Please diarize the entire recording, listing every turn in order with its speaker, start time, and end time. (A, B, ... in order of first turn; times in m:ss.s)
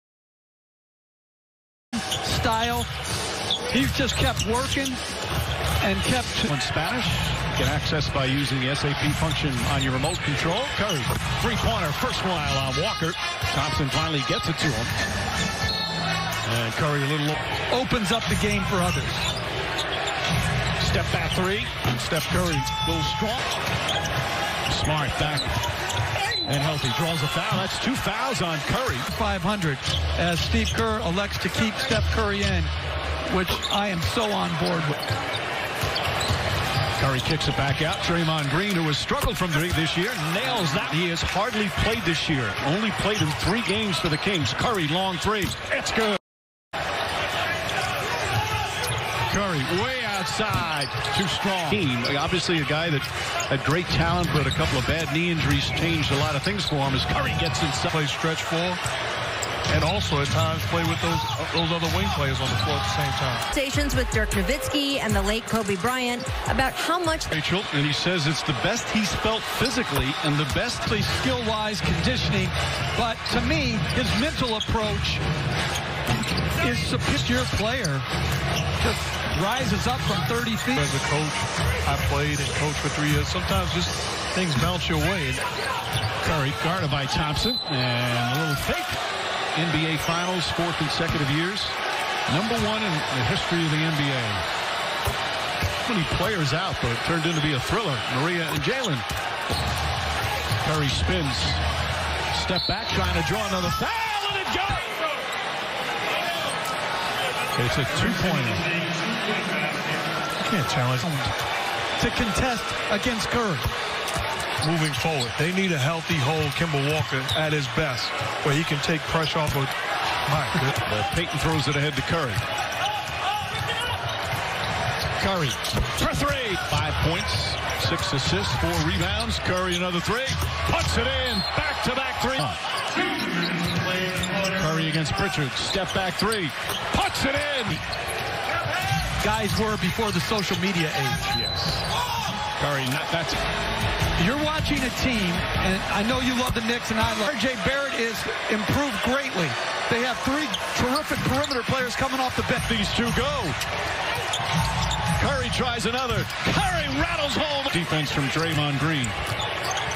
0:02.1-0:02.9 A
0:03.7-0:05.0 A
0:05.8-0:06.5 A
0:06.5-0:14.9 B
0:16.4-0:17.4 B
0:17.7-0:19.3 A
0:20.8-0:23.5 B
0:24.7-0:25.6 B
0:26.4-0:29.1 B
0:29.1-0:32.7 A
0:33.3-0:35.0 A
0:37.0-0:46.2 B
0:49.3-0:57.9 B
0:57.9-0:58.8 C
0:59.7-1:03.4 C
1:03.5-1:07.3 D
1:07.3-1:10.9 B
1:10.9-1:15.2 A
1:16.6-1:18.1 A
1:18.8-1:20.8 A
1:20.8-1:25.5 C
1:26.2-1:29.0 B
1:29.6-1:31.8 B
1:32.3-1:34.4 B
1:35.9-1:39.0 B
1:40.6-1:41.6 B
1:42.3-1:45.0 B
1:47.6-1:48.7 B
1:50.4-1:51.0 C
1:51.0-1:51.3 A
1:52.0-1:53.7 A
1:54.6-1:59.8 C
2:00.3-2:00.8 C
2:00.8-2:02.4 B
2:05.2-2:12.6 B
2:14.4-2:17.8 B
2:19.2-2:21.3 A
2:21.3-2:21.8 B
2:22.6-2:23.4 B
2:24.2-2:32.7 A
2:32.6-2:33.6 B
2:35.2-2:39.2 B